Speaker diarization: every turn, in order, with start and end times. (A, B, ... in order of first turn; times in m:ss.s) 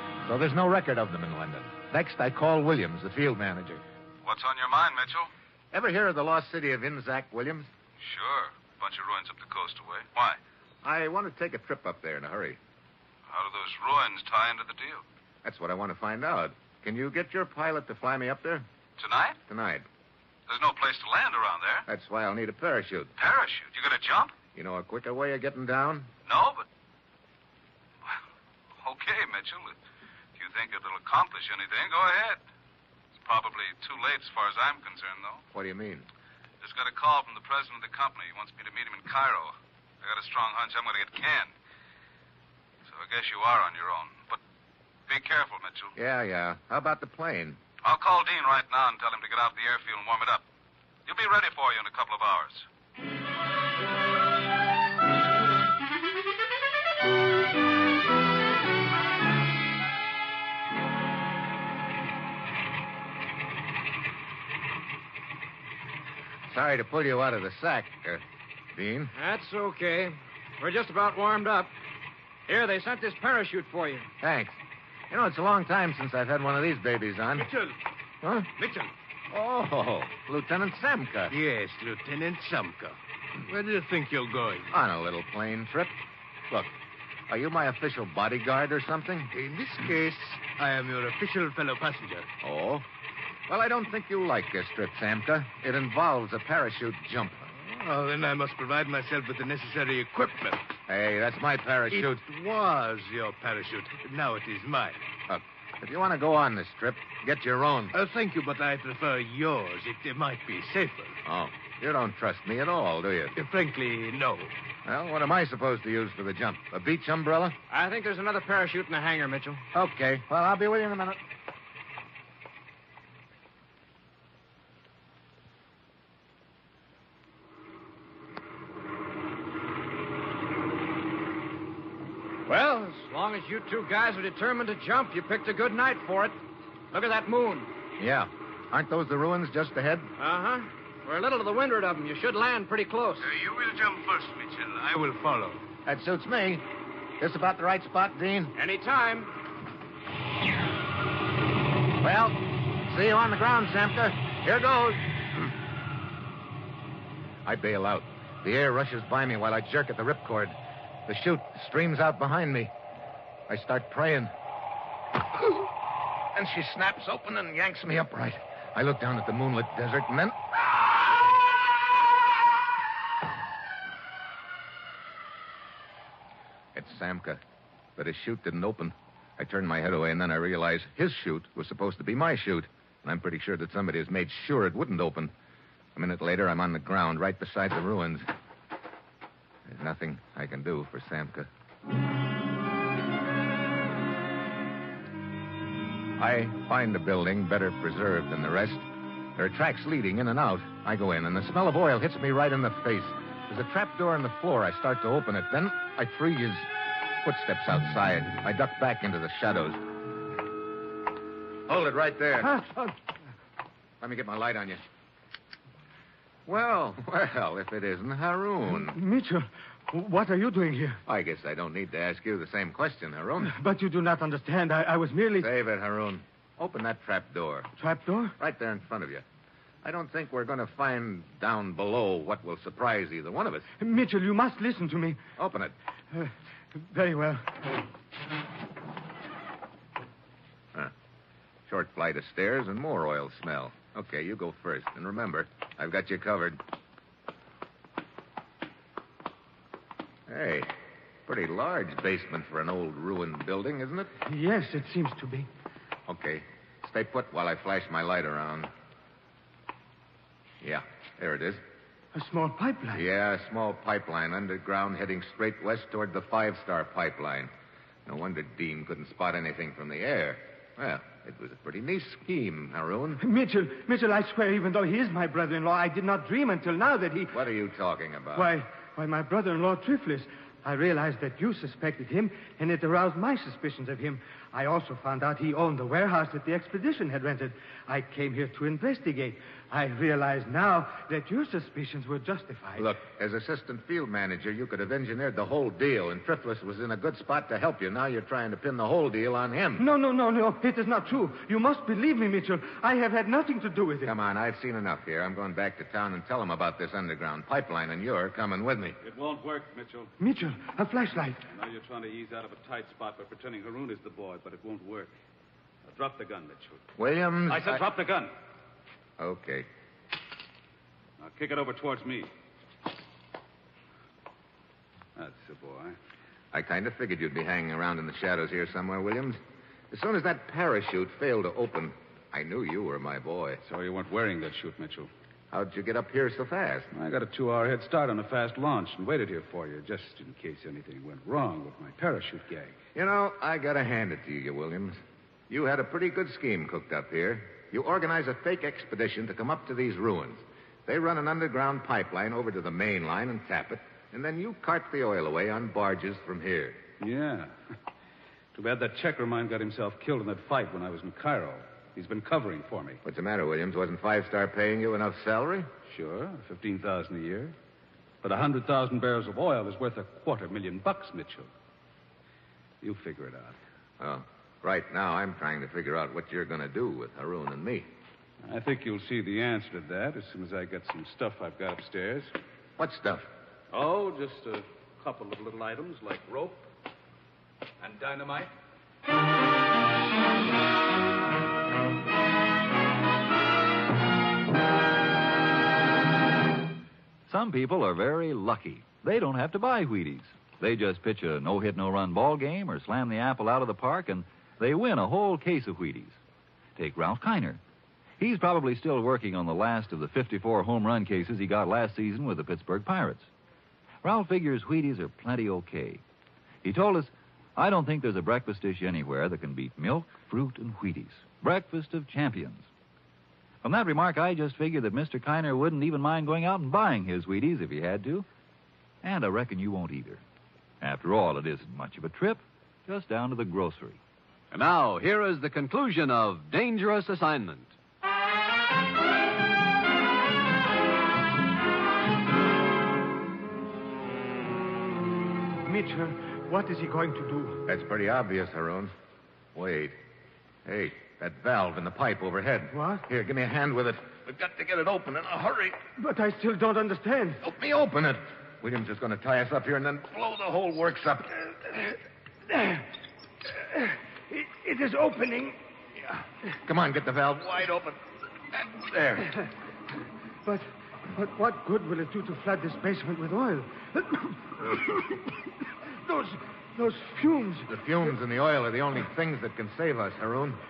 0:00.2-0:03.8 A
0:04.2-0:05.3 B
0:05.7-0:07.7 A
0:08.0-0:10.4 B
0:10.8-0:12.6 A
0:13.3-0:15.0 B
0:15.4-0:18.6 A
0:19.0-0:19.4 B
0:19.5-0:19.9 A
0:20.5-0:21.8 B
0:21.9-0:23.1 A
0:23.2-0:24.3 B
0:24.5-0:26.1 A
0:26.2-0:26.6 B
0:28.8-0:29.7 B
0:30.4-0:32.4 B
0:33.2-0:35.4 B
0:35.5-0:36.1 A
0:36.6-0:41.5 B
0:42.8-0:44.4 B
0:45.1-0:45.9 B
0:46.0-0:47.6 A
0:47.8-0:50.4 B
0:51.0-0:52.6 B
1:06.5-1:08.2 A
1:08.7-1:09.1 A
1:09.1-1:11.7 C
1:12.5-1:14.1 C
1:14.2-1:14.6 A
1:15.1-1:17.5 A
1:17.4-1:17.8 D
1:18.2-1:18.5 A
1:18.6-1:18.9 D
1:19.3-1:21.3 A
1:21.3-1:24.7 D
1:24.7-1:26.0 A
1:27.3-1:29.3 A
1:29.3-1:32.3 D
1:32.4-1:32.8 A
1:33.5-1:37.4 A
1:37.5-1:40.6 D
1:40.9-1:42.2 A
1:41.9-1:45.1 D
1:45.3-1:47.9 A
1:47.9-1:51.2 D
1:51.2-1:53.3 A
1:53.3-1:54.5 D
1:54.8-1:57.6 A
1:57.7-1:59.6 C
1:59.7-2:01.2 A
2:12.5-2:16.4 C
2:16.9-2:17.7 C
2:18.0-2:20.1 A
2:20.2-2:23.3 C
2:23.2-2:25.6 D
2:25.8-2:26.6 A
2:27.2-2:28.5 A
2:28.5-2:29.3 C
2:32.0-2:35.4 A
2:37.4-2:40.6 A
2:41.1-2:42.7 A
2:43.5-2:44.3 A
2:45.4-2:45.6 A
2:46.3-2:51.3 A
2:56.7-2:57.4 A
2:58.0-3:05.3 A
3:06.0-3:08.3 A
3:09.6-3:11.5 A
3:16.2-3:26.7 A
3:27.2-3:29.8 A
3:31.7-3:32.6 A
3:32.4-3:32.9 E
3:34.0-3:34.8 A
3:36.4-3:39.0 A
3:38.7-3:41.0 E
3:41.0-3:43.5 A
3:43.4-3:45.5 E
3:45.4-3:47.7 A
3:47.8-3:48.3 E
3:48.4-3:49.2 A
3:49.8-3:53.7 A
3:53.8-3:55.2 E
3:55.4-3:55.7 A
3:56.1-3:57.8 E
4:01.7-4:06.6 A
4:10.3-4:10.7 A
4:11.2-4:14.1 A
4:14.2-4:15.5 E
4:16.1-4:18.7 A
4:20.6-4:21.6 A
4:22.1-4:23.0 E
4:22.9-4:27.5 A
4:28.0-4:33.2 A
4:33.2-4:37.3 E
4:37.3-4:38.5 A
4:38.3-4:52.9 E
4:52.8-4:59.8 A
4:59.8-5:04.1 E
5:04.0-5:09.0 A
5:09.0-5:10.1 F
5:10.2-5:11.4 E
5:11.5-5:15.1 F
5:15.8-5:16.8 F
5:17.0-5:17.8 A
5:17.5-5:18.3 F
5:19.2-5:19.7 A
5:21.2-5:22.3 F
5:25.2-5:26.0 F
5:26.5-5:29.4 A
5:29.9-5:33.6 A
5:33.6-5:35.1 F
5:35.5-5:36.9 A
5:36.9-5:42.8 F
5:42.9-5:56.8 A
5:57.0-5:57.6 F
5:58.5-6:03.0 F
6:03.0-6:05.7 A
6:05.8-6:07.5 F
6:08.2-6:11.5 F
6:12.8-6:13.6 F
6:14.0-6:17.9 A
6:18.4-6:22.3 F
6:22.8-6:23.3 A
6:23.7-6:26.7 F
6:27.8-6:28.5 F
6:37.3-6:46.2 G
6:46.8-6:47.6 G
6:48.2-6:53.3 G
6:54.0-6:56.0 G
6:56.6-7:02.7 G
7:03.6-7:08.2 G
7:09.0-7:10.2 G
7:10.8-7:14.0 G
7:14.5-7:17.7 H
7:25.6-7:27.6 E
7:27.6-7:28.9 A
7:29.5-7:30.0 A
7:30.6-7:35.8 A
7:32.7-7:33.0 E
7:36.0-7:37.4 E
7:37.4-7:41.5 A
7:42.5-7:42.9 E
7:43.5-7:45.6 E
7:46.1-7:48.0 A
7:48.5-7:49.3 A
7:50.4-7:55.2 E
7:55.9-7:57.7 E
7:57.7-8:00.6 A